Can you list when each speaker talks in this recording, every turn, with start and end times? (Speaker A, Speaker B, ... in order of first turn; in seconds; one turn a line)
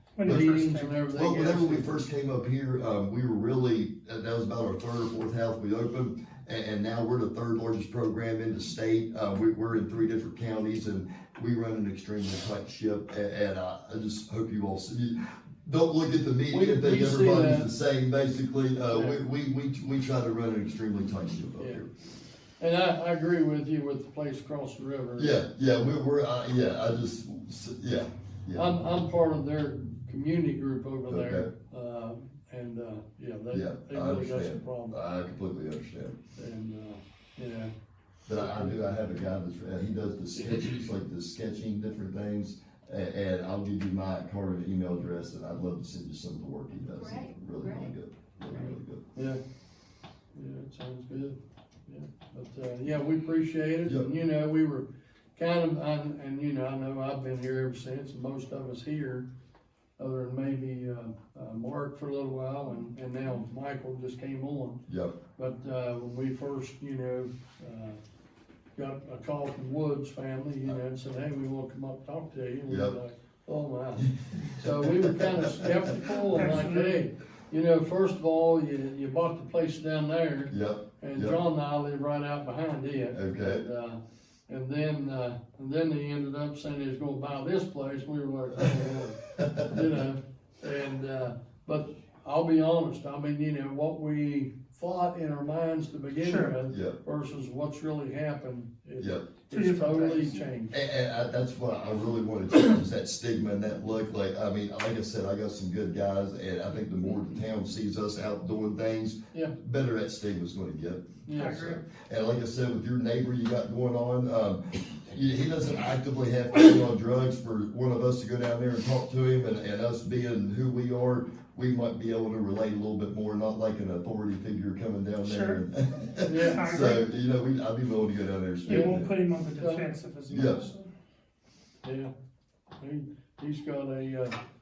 Speaker A: 0.1-1.0
Speaker B: 0.2-2.0
Speaker C: 0.2-0.6
Speaker C: 1.1-21.9
Speaker B: 16.5-17.7
Speaker B: 18.9-19.2
Speaker B: 21.6-21.8
Speaker B: 22.6-25.4
Speaker C: 25.2-28.8
Speaker B: 28.5-35.0
Speaker C: 31.1-31.5
Speaker C: 33.5-36.2
Speaker B: 36.4-37.7
Speaker C: 38.3-49.0
Speaker B: 38.3-39.1
Speaker B: 48.5-49.4
Speaker B: 50.3-59.3
Speaker B: 60.0-64.8
Speaker C: 64.9-65.2
Speaker B: 65.3-68.0
Speaker B: 68.8-100.8
Speaker C: 72.7-73.0
Speaker C: 74.3-76.7
Speaker A: 76.2-77.0
Speaker C: 80.5-81.4
Speaker C: 83.1-83.6
Speaker C: 89.3-89.9
Speaker A: 96.2-96.5
Speaker C: 96.7-97.0
Speaker C: 99.0-99.3
Speaker A: 99.5-100.4
Speaker C: 100.7-129.1
Speaker B: 111.2-111.6
Speaker A: 111.3-111.8
Speaker A: 125.2-125.6
Speaker B: 126.2-126.6
Speaker A: 126.3-127.0
Speaker A: 128.7-130.9
Speaker B: 128.7-129.8
Speaker C: 130.3-130.7
Speaker B: 131.8-132.1
Speaker B: 132.8-134.3